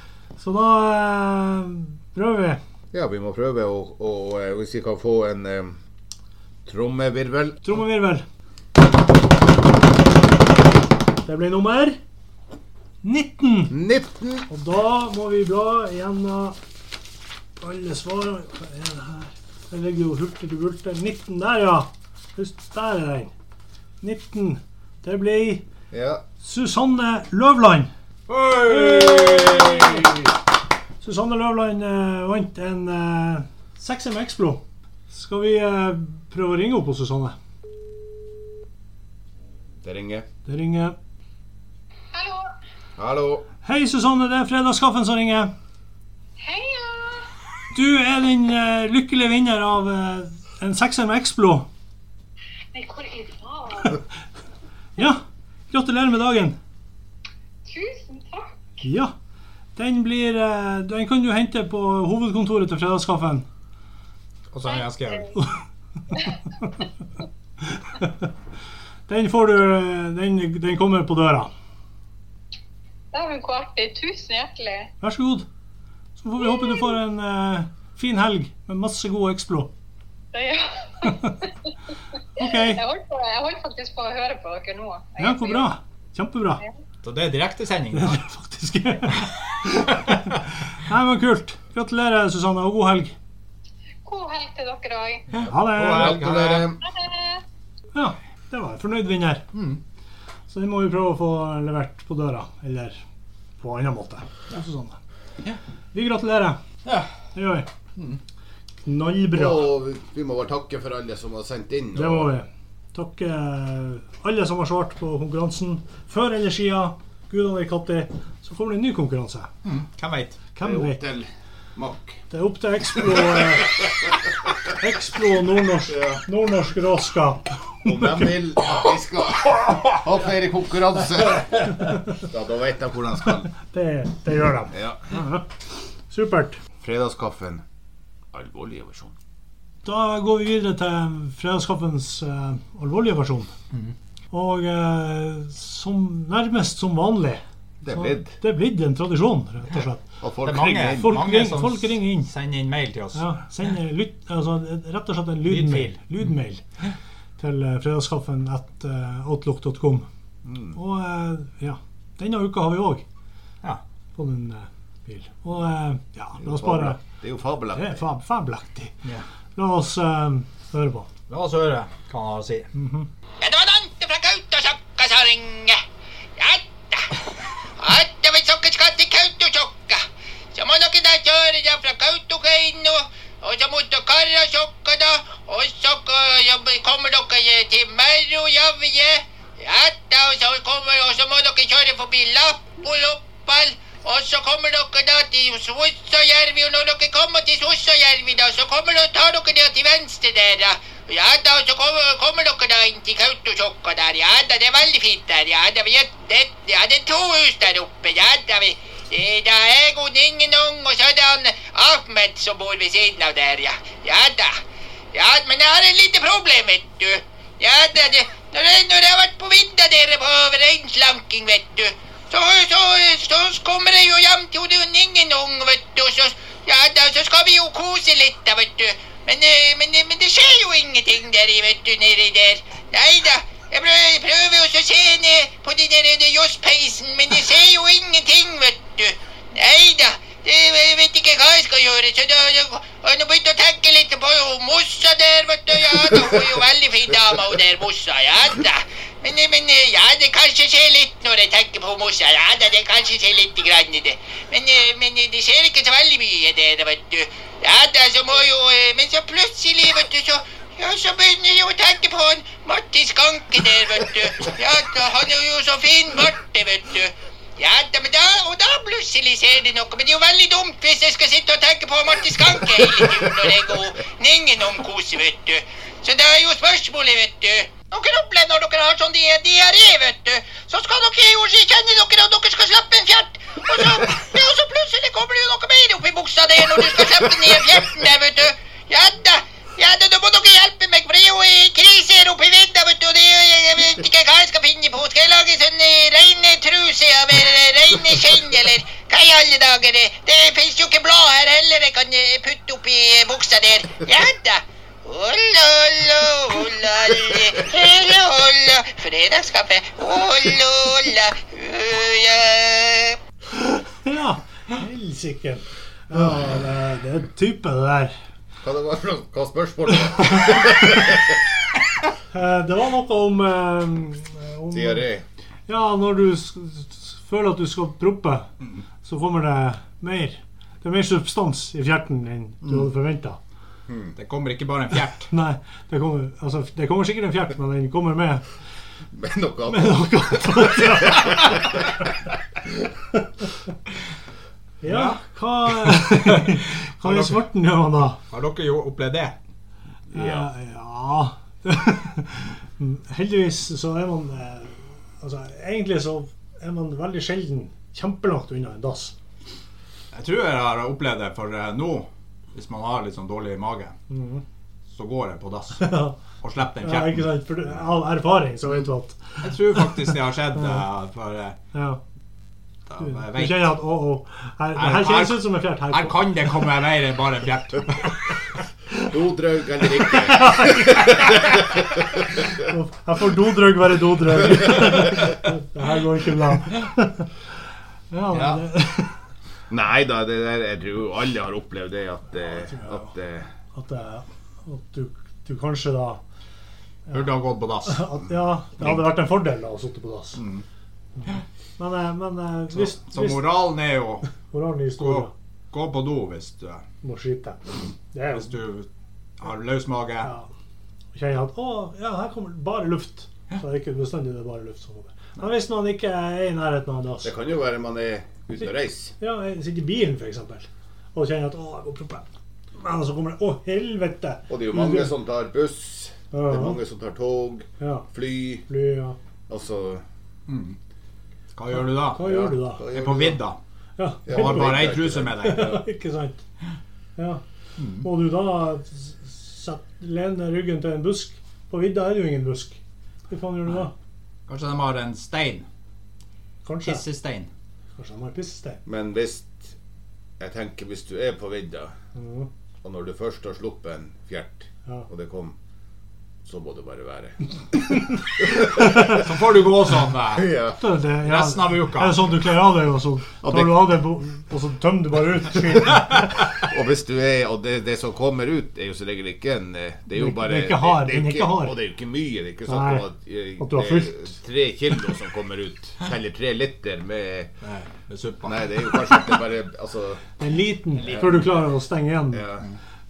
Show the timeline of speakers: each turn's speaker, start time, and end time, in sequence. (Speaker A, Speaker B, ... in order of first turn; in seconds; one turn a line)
Speaker A: 0.4-2.6
Speaker B: 2.9-5.8
Speaker B: 6.7-7.6
Speaker A: 7.6-8.2
Speaker A: 11.2-12.0
Speaker A: 13.0-13.8
Speaker B: 13.7-14.5
Speaker A: 14.5-16.6
Speaker A: 17.6-23.3
Speaker A: 24.0-25.6
Speaker B: 25.9-26.2
Speaker A: 26.4-27.9
Speaker C: 28.3-30.2
Speaker A: 28.5-30.1
Speaker A: 31.0-37.4
Speaker B: 39.8-40.3
Speaker A: 40.5-41.0
Speaker D: 42.1-42.5
Speaker B: 43.0-43.5
Speaker A: 43.6-45.5
Speaker D: 46.4-47.3
Speaker A: 47.7-51.7
Speaker D: 52.7-54.0
Speaker A: 55.0-56.6
Speaker D: 57.6-58.7
Speaker A: 58.8-59.1
Speaker A: 59.8-63.5
Speaker C: 64.5-65.3
Speaker D: 64.7-65.3
Speaker A: 67.7-68.3
Speaker A: 69.1-71.5
Speaker D: 73.1-74.9
Speaker A: 75.0-75.5
Speaker A: 76.2-79.7
Speaker D: 76.5-76.8
Speaker D: 80.3-81.8
Speaker A: 82.4-82.8
Speaker D: 82.4-85.7
Speaker A: 85.2-86.6
Speaker C: 87.0-88.2
Speaker A: 87.9-93.2
Speaker D: 94.0-95.3
Speaker C: 95.3-96.7
Speaker A: 95.5-96.2
Speaker B: 95.8-96.8
Speaker D: 96.8-97.4
Speaker A: 97.9-99.4
Speaker C: 99.5-99.8
Speaker A: 100.5-103.0
Speaker A: 103.6-105.0
Speaker A: 105.9-106.6
Speaker C: 106.8-107.1
Speaker A: 107.3-107.7
Speaker A: 108.9-109.7
Speaker B: 109.3-112.3
Speaker A: 111.9-119.5
Speaker C: 119.6-120.4
Speaker A: 120.5-121.0
Speaker B: 120.6-122.2
Speaker A: 122.3-123.9
Speaker B: 123.3-124.3
Speaker A: 124.7-128.3
Speaker B: 125.9-126.2
Speaker B: 127.8-133.5
Speaker A: 133.5-135.5
Speaker B: 134.7-135.1
Speaker A: 136.1-136.6
Speaker B: 136.8-137.6
Speaker B: 138.3-139.2
Speaker A: 139.8-143.5
Speaker A: 144.3-150.0
Speaker B: 147.8-148.3
Speaker B: 150.2-151.2
Speaker C: 150.4-153.4
Speaker A: 150.8-152.3
Speaker A: 153.1-156.6
Speaker C: 155.5-156.1
Speaker A: 157.4-160.1
Speaker B: 160.4-160.8
Speaker A: 160.7-163.1
Speaker A: 164.2-167.0
Speaker B: 166.4-168.0
Speaker A: 167.7-168.9
Speaker A: 169.6-171.1
Speaker C: 171.3-172.7
Speaker A: 172.7-173.1
Speaker E: 173.4-175.8
Speaker E: 176.4-214.6
Speaker E: 215.1-313.2
Speaker B: 245.9-246.5
Speaker A: 313.5-318.2
Speaker B: 318.6-321.4
Speaker A: 320.5-321.1
Speaker A: 322.3-325.1
Speaker B: 324.7-325.2
Speaker A: 325.7-328.5
Speaker A: 329.0-333.4
Speaker B: 333.9-334.1
Speaker C: 334.2-335.3
Speaker A: 335.3-338.5
Speaker B: 339.1-341.8
Speaker A: 339.7-341.9
Speaker A: 344.8-348.2
Speaker C: 344.8-345.2
Speaker C: 345.8-347.4
Speaker C: 348.3-349.4
Speaker B: 350.1-350.5
Speaker A: 350.1-359.1
Speaker C: 360.1-364.0
Speaker A: 364.1-364.4
Speaker C: 364.9-367.3
Speaker A: 365.8-366.2
Speaker A: 366.8-370.8
Speaker C: 369.4-371.6
Speaker A: 371.7-372.0
Speaker C: 372.9-373.8
Speaker A: 373.0-376.2
Speaker C: 374.8-378.2
Speaker B: 379.0-382.5
Speaker A: 380.1-381.9
Speaker A: 382.6-387.3
Speaker A: 388.1-389.2
Speaker C: 388.3-388.6
Speaker B: 389.7-393.5
Speaker A: 392.4-393.1
Speaker A: 393.7-396.2
Speaker C: 397.1-398.1
Speaker A: 397.9-400.4
Speaker C: 400.4-400.6
Speaker A: 401.2-403.6
Speaker C: 402.7-404.3
Speaker A: 404.3-405.3
Speaker C: 405.0-406.8
Speaker A: 407.0-408.5
Speaker C: 408.3-408.9
Speaker C: 409.4-410.3
Speaker A: 410.2-410.5
Speaker A: 411.1-417.3
Speaker B: 417.2-419.1
Speaker A: 419.2-425.1
Speaker B: 424.5-428.6
Speaker A: 426.3-426.8
Speaker A: 427.8-428.1
Speaker A: 428.6-429.2
Speaker B: 429.5-430.0
Speaker C: 430.5-430.8
Speaker C: 431.6-432.3
Speaker A: 431.7-432.8
Speaker B: 432.2-433.4
Speaker C: 432.9-433.6
Speaker A: 434.0-436.4
Speaker B: 434.3-435.7
Speaker C: 434.3-435.8
Speaker A: 437.2-437.4
Speaker C: 437.8-438.1
Speaker A: 438.0-442.8
Speaker A: 443.3-443.9
Speaker C: 444.5-445.7
Speaker A: 446.6-447.0
Speaker C: 446.8-447.5
Speaker A: 448.0-448.8
Speaker B: 448.9-449.8
Speaker B: 450.4-451.9
Speaker A: 452.1-452.5
Speaker B: 452.8-455.6
Speaker B: 456.4-457.4
Speaker B: 458.4-459.1
Speaker A: 458.7-459.2
Speaker C: 458.8-460.5
Speaker B: 460.3-460.8
Speaker A: 460.8-466.3
Speaker C: 461.2-462.3
Speaker B: 463.4-463.9
Speaker B: 466.6-477.5
Speaker A: 470.2-471.8
Speaker A: 472.7-473.1
Speaker A: 473.6-474.3
Speaker C: 477.6-479.1
Speaker B: 478.4-480.2
Speaker A: 480.4-482.5
Speaker B: 481.0-481.5
Speaker C: 481.0-481.5
Speaker B: 482.3-482.7